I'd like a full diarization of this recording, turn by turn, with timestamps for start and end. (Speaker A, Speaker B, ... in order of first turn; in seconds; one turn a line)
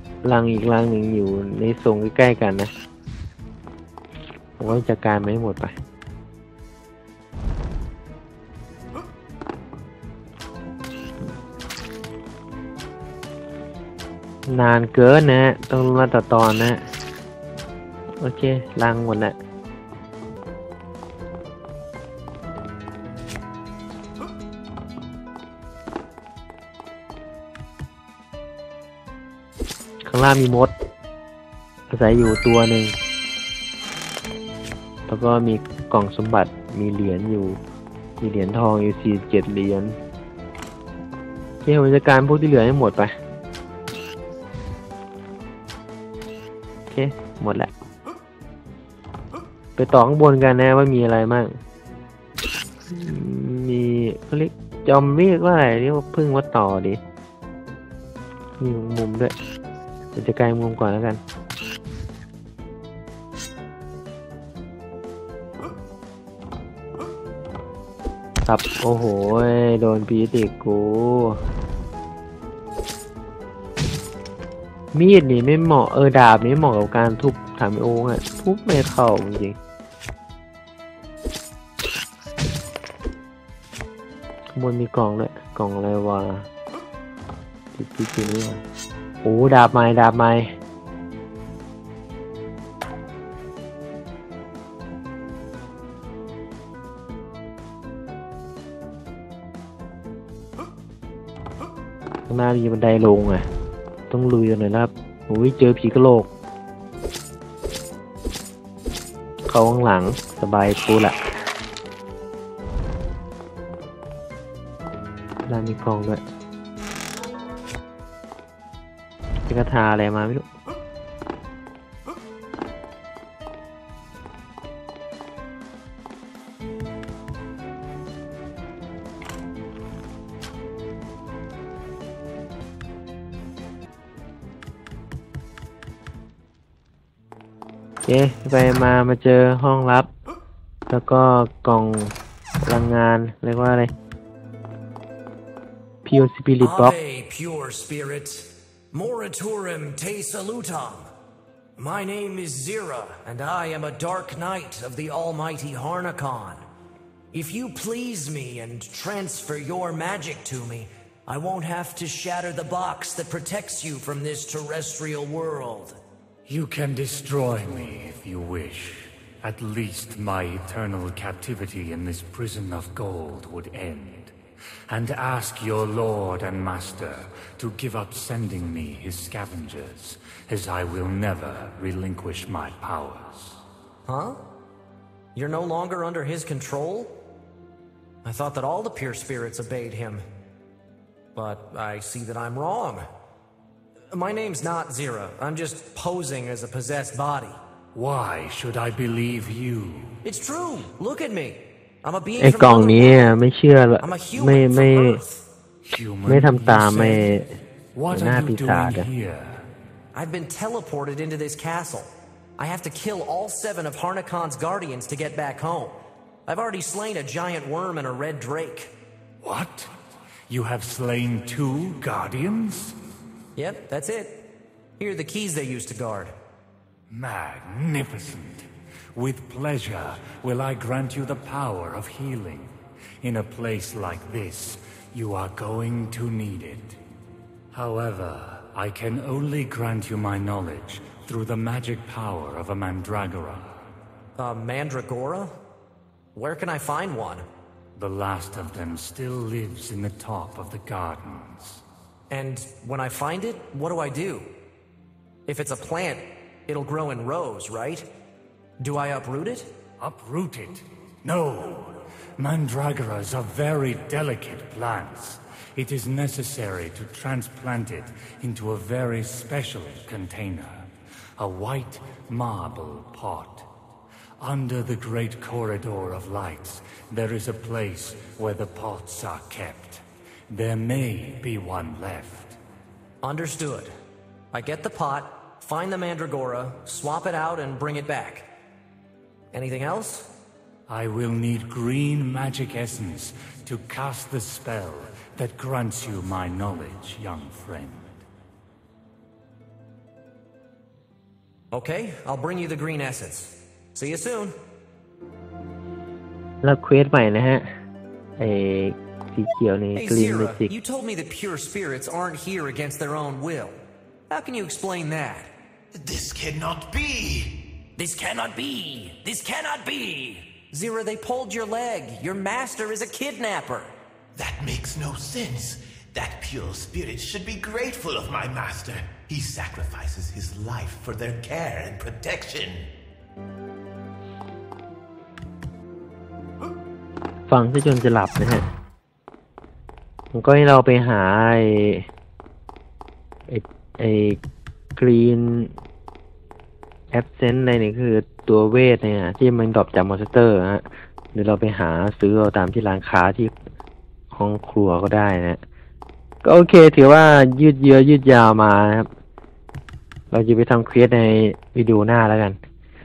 Speaker A: 0.2-2.7
Speaker A: 4.6-5.7
Speaker A: 14.5-16.9
Speaker A: 18.2-19.4
Speaker A: 30.0-30.8
Speaker A: 31.9-33.0
Speaker A: 35.1-37.6
Speaker A: 38.2-40.0
Speaker A: 41.6-43.1
Speaker A: 46.9-47.7
Speaker A: 49.8-51.6
Speaker A: 52.9-57.0
Speaker A: 58.6-59.3
Speaker A: 60.1-61.2
Speaker A: 68.5-71.4
Speaker A: 74.9-79.6
Speaker A: 84.5-86.5
Speaker A: 87.8-88.6
Speaker A: 89.2-90.5
Speaker A: 102.3-103.5
Speaker A: 104.1-106.3
Speaker A: 109.5-111.2
Speaker A: 115.5-116.2
Speaker A: 119.5-120.5
Speaker A: 138.1-140.1
Speaker A: 140.9-143.9
Speaker A: 146.1-147.0
Speaker B: 146.6-151.1
Speaker B: 151.8-156.6
Speaker B: 157.3-166.0
Speaker C: 166.5-174.3
Speaker C: 174.9-183.6
Speaker B: 184.1-184.4
Speaker B: 185.3-187.2
Speaker B: 188.2-190.2
Speaker B: 191.3-193.0
Speaker B: 194.1-197.6
Speaker C: 197.9-200.2
Speaker B: 200.2-203.3
Speaker A: 202.4-205.2
Speaker B: 204.0-205.5
Speaker C: 205.8-207.3
Speaker A: 206.3-207.5
Speaker C: 207.9-209.7
Speaker A: 208.1-209.1
Speaker B: 210.1-218.9
Speaker C: 219.4-219.9
Speaker C: 220.5-223.0
Speaker B: 223.6-224.5
Speaker B: 225.0-226.3
Speaker C: 227.1-237.0
Speaker C: 237.7-243.8
Speaker B: 244.4-245.5
Speaker B: 246.3-247.4
Speaker C: 248.0-251.8
Speaker B: 252.3-254.5
Speaker B: 255.5-258.1
Speaker B: 258.8-259.7
Speaker C: 260.0-273.7
Speaker C: 274.4-282.6
Speaker B: 283.2-283.9
Speaker B: 284.5-288.5
Speaker B: 289.5-290.3
Speaker C: 290.9-298.2
Speaker B: 301.7-304.6
Speaker A: 306.6-307.7
Speaker A: 308.4-310.7
Speaker B: 310.0-313.8
Speaker B: 314.3-315.5
Speaker D: 315.9-317.7
Speaker B: 318.0-323.9
Speaker D: 324.4-332.9
Speaker A: 337.5-338.7
Speaker A: 340.3-342.1
Speaker A: 343.5-344.4
Speaker A: 345.0-345.7
Speaker A: 347.1-353.6
Speaker A: 354.3-355.6
Speaker A: 356.4-359.1
Speaker A: 360.3-362.6